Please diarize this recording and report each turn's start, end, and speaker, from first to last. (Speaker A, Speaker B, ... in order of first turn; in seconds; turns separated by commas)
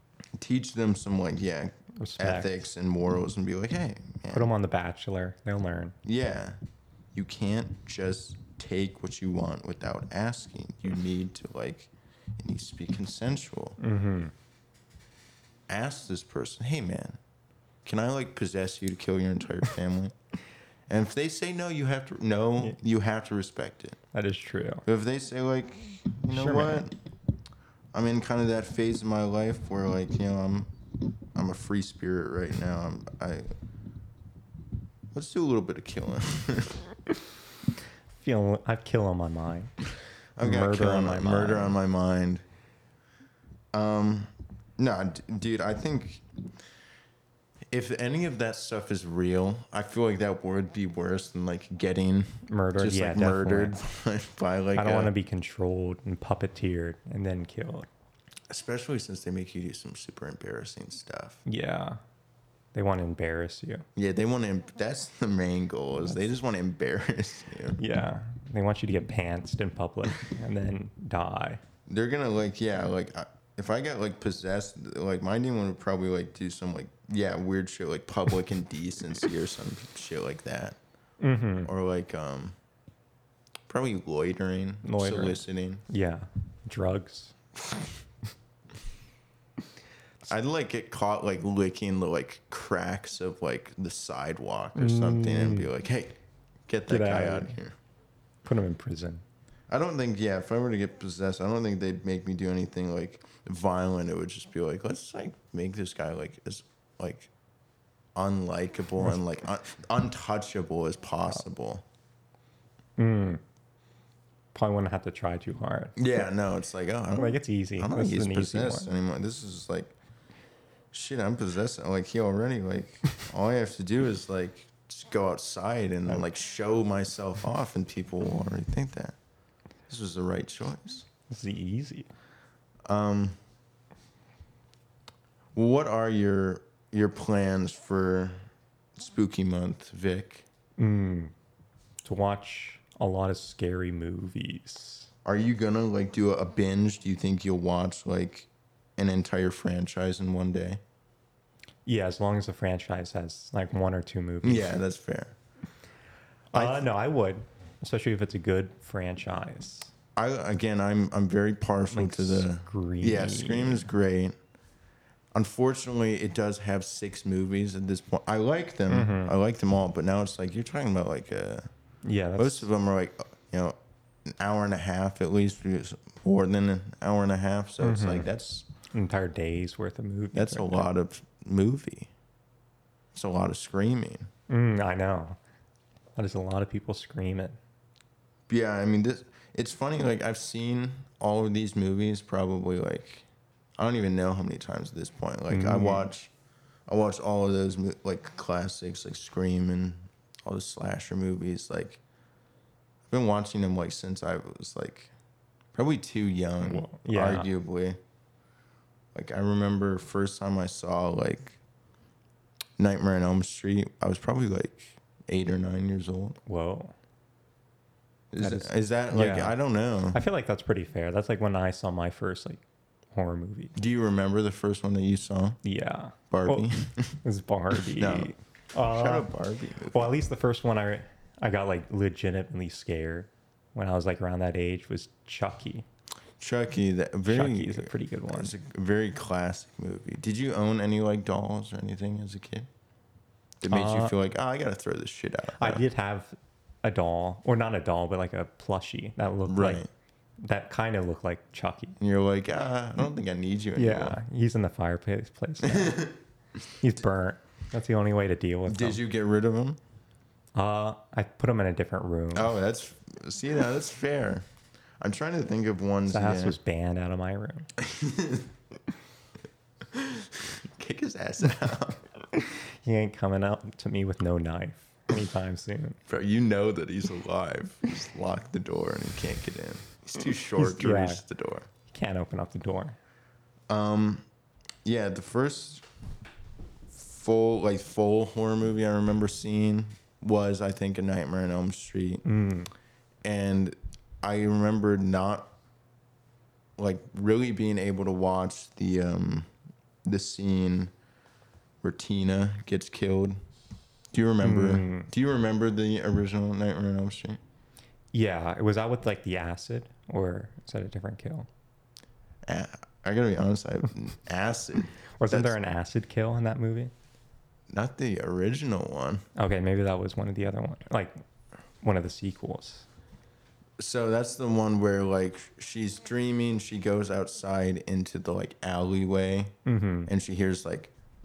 Speaker A: 0.4-4.5, Speaker B: 1.9-2.7, Speaker B: 4.3-5.9, Speaker A: 6.0-6.6, Speaker A: 7.1-13.8, Speaker B: 13.8-14.3, Speaker A: 15.7-17.2, Speaker A: 17.8-20.1, Speaker A: 20.9-24.0, Speaker B: 24.1-24.8, Speaker A: 24.9-26.9, Speaker B: 26.3-26.9, Speaker A: 27.9-30.7, Speaker A: 31.3-33.5, Speaker A: 35.1-36.9, Speaker B: 38.2-39.7, Speaker A: 40.4-42.4, Speaker B: 40.4-41.8, Speaker A: 43.7-46.2, Speaker A: 47.7-55.1, Speaker B: 52.5-53.8, Speaker B: 54.7-57.9, Speaker A: 58.5-61.4, Speaker B: 61.5-62.0, Speaker B: 62.7-63.8, Speaker A: 64.0-67.8, Speaker B: 67.8-71.6, Speaker A: 71.9-80.8, Speaker B: 81.2-81.7, Speaker A: 81.6-82.5, Speaker A: 83.7-85.8, Speaker B: 84.8-87.3, Speaker A: 90.2-96.2, Speaker B: 94.8-95.7, Speaker A: 96.7-97.7, Speaker B: 96.9-97.6, Speaker B: 98.4-99.2, Speaker A: 99.7-107.3, Speaker A: 108.1-111.8, Speaker B: 113.0-113.4, Speaker B: 114.5-116.0, Speaker A: 116.0-119.9, Speaker B: 117.1-118.9, Speaker A: 120.9-129.2, Speaker A: 129.9-131.1, Speaker B: 131.3-132.1, Speaker A: 132.9-133.4, Speaker A: 135.5-138.4, Speaker A: 138.9-140.4, Speaker B: 140.8-141.3, Speaker B: 142.0-145.1, Speaker A: 145.2-150.8, Speaker B: 151.8-154.8, Speaker A: 154.4-155.3, Speaker B: 156.5-159.9, Speaker A: 156.5-156.9, Speaker A: 160.2-164.3, Speaker B: 161.9-163.9, Speaker A: 165.3-171.7, Speaker B: 168.9-169.3, Speaker B: 172.0-172.7, Speaker A: 172.4-173.8, Speaker A: 174.3-178.7, Speaker B: 177.8-178.3, Speaker B: 178.9-180.9, Speaker A: 180.3-182.1, Speaker A: 183.1-184.3, Speaker B: 184.5-185.4, Speaker B: 186.2-187.6, Speaker A: 188.5-193.2, Speaker A: 193.8-196.3, Speaker B: 195.5-196.1, Speaker A: 196.9-202.0, Speaker A: 203.1-205.1, Speaker A: 205.7-208.0, Speaker B: 206.6-207.5, Speaker A: 209.1-211.6, Speaker A: 212.8-216.4, Speaker B: 216.4-216.9, Speaker A: 218.3-220.2, Speaker B: 218.4-219.6, Speaker B: 220.1-223.8, Speaker A: 223.7-225.6, Speaker B: 225.6-226.7, Speaker A: 226.3-227.2, Speaker B: 227.2-229.3, Speaker A: 227.7-230.1, Speaker B: 229.9-235.8, Speaker A: 236.4-242.7, Speaker B: 237.3-238.5, Speaker A: 243.6-245.8, Speaker B: 243.7-244.1, Speaker B: 245.6-249.8, Speaker A: 249.5-249.9, Speaker B: 250.4-251.9, Speaker A: 252.0-254.2, Speaker B: 253.8-256.1, Speaker A: 255.6-256.2, Speaker B: 256.8-259.0, Speaker A: 258.7-259.8, Speaker B: 260.5-262.5, Speaker A: 262.3-264.4, Speaker A: 265.0-266.6, Speaker B: 266.1-267.7, Speaker A: 267.8-268.5, Speaker A: 269.9-272.1, Speaker B: 272.3-276.0, Speaker A: 276.1-281.7, Speaker B: 280.6-281.2, Speaker B: 281.9-283.0, Speaker A: 283.7-284.2, Speaker A: 284.8-285.8, Speaker A: 286.9-292.2, Speaker B: 292.2-292.7, Speaker A: 293.2-295.5, Speaker A: 296.8-299.5, Speaker A: 300.0-300.9, Speaker A: 301.8-303.4, Speaker A: 304.1-307.4, Speaker B: 304.4-305.1, Speaker B: 308.1-311.5, Speaker A: 312.4-315.6, Speaker B: 315.2-316.9, Speaker A: 317.7-319.2, Speaker B: 319.3-321.2, Speaker B: 321.8-322.9, Speaker A: 323.8-330.9, Speaker B: 329.6-330.1